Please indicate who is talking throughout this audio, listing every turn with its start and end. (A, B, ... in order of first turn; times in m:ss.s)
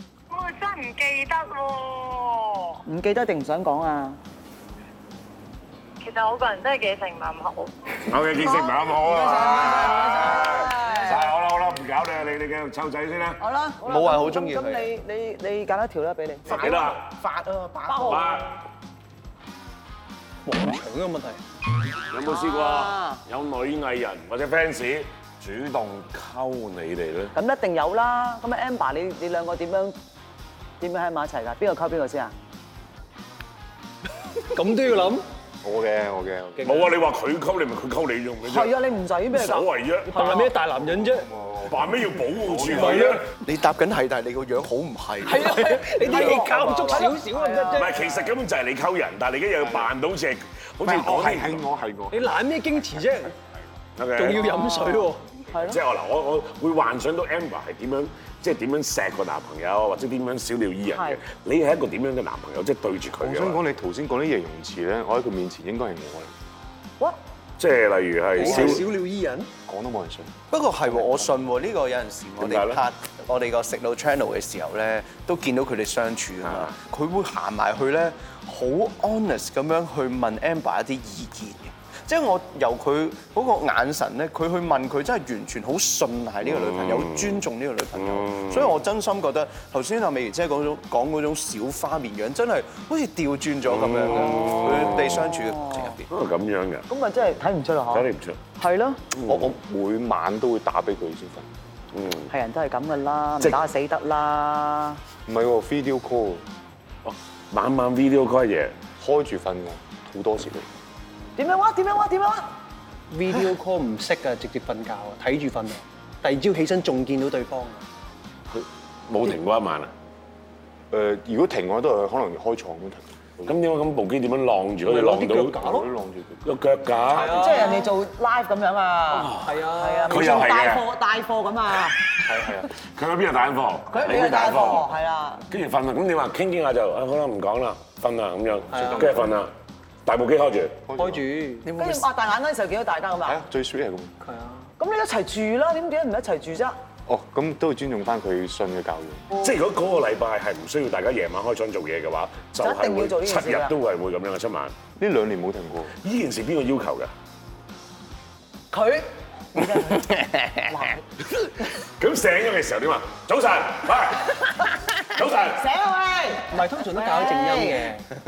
0:00.3-0:02.8 A
0:02.9-0:04.2 B
0:06.0-0:07.7 A
0:08.0-0:13.4 C
0:08.4-0:11.3 B
0:13.4-0:16.7 B
0:13.8-0:14.9 D
0:16.5-0:17.1 C
0:16.5-0:18.3 D
0:17.9-0:18.4 B
0:18.0-0:18.5 C
0:20.4-0:21.4 E
0:22.1-0:27.3 C
0:22.2-0:23.2 B
0:27.3-0:30.0 B
0:30.8-0:32.3 B
0:34.4-0:35.2 E
0:35.6-0:36.8 F
0:36.6-0:36.9 E
0:36.6-0:38.8 C
0:38.4-0:39.7 B
0:39.3-0:40.4 C
0:40.1-0:41.3 E
0:40.7-0:43.2 F
0:41.7-0:43.3 C
0:42.7-0:43.2 E
0:43.3-0:47.0 D
0:45.2-0:48.1 E
0:46.0-0:48.2 B
0:47.8-0:51.6 C
0:49.6-0:49.9 F
0:50.8-0:52.4 F
0:52.1-0:53.3 E
0:54.0-0:54.4 C
0:54.2-0:55.2 E
0:54.4-0:55.8 B
0:55.6-1:03.6 C
1:00.9-1:01.2 B
1:03.2-1:06.3 F
1:07.6-1:08.8 C
1:08.4-1:09.5 E
1:08.4-1:08.9 F
1:09.7-1:10.4 F
1:10.5-1:36.1 D
1:12.4-1:12.8 C
1:16.4-1:16.7 C
1:26.4-1:28.8 C
1:33.7-1:35.3 C
1:34.4-1:36.0 B
1:36.1-1:36.9 C
1:36.9-1:39.0 B
1:37.9-1:38.4 C
1:39.1-1:39.5 C
1:39.2-1:41.5 F
1:41.9-1:42.3 C
1:42.3-1:45.0 B
1:45.3-1:46.4 F
1:47.0-1:48.8 C
1:49.0-1:50.7 F
1:51.4-1:52.5 B
1:53.1-1:57.8 E
1:58.5-1:59.9 C
2:00.9-2:03.5 F
2:03.4-2:05.6 C
2:04.9-2:05.9 E
2:05.6-2:06.4 F
2:06.4-2:07.7 C
2:07.1-2:07.9 E
2:07.3-2:12.1 B
2:09.1-2:10.8 C
2:09.4-2:10.4 E
2:12.8-2:14.9 C
2:13.9-2:15.5 B
2:15.5-2:19.5 C
2:18.7-2:19.2 E
2:19.0-2:19.3 F
2:20.1-2:20.8 C
2:20.9-2:21.2 F
2:21.0-2:21.7 E
2:21.6-2:22.1 D
2:21.8-2:23.4 B
2:23.2-2:24.1 F
2:24.2-2:24.7 E
2:24.8-2:26.8 B
2:27.1-2:29.3 F
2:29.4-2:34.8 C
2:32.6-2:33.7 B
2:35.0-2:36.0 F
2:36.0-2:37.1 C
2:38.7-2:41.0 B
2:39.6-2:40.7 D
2:41.3-2:45.6 C
2:45.5-2:47.9 B
2:46.5-2:48.0 E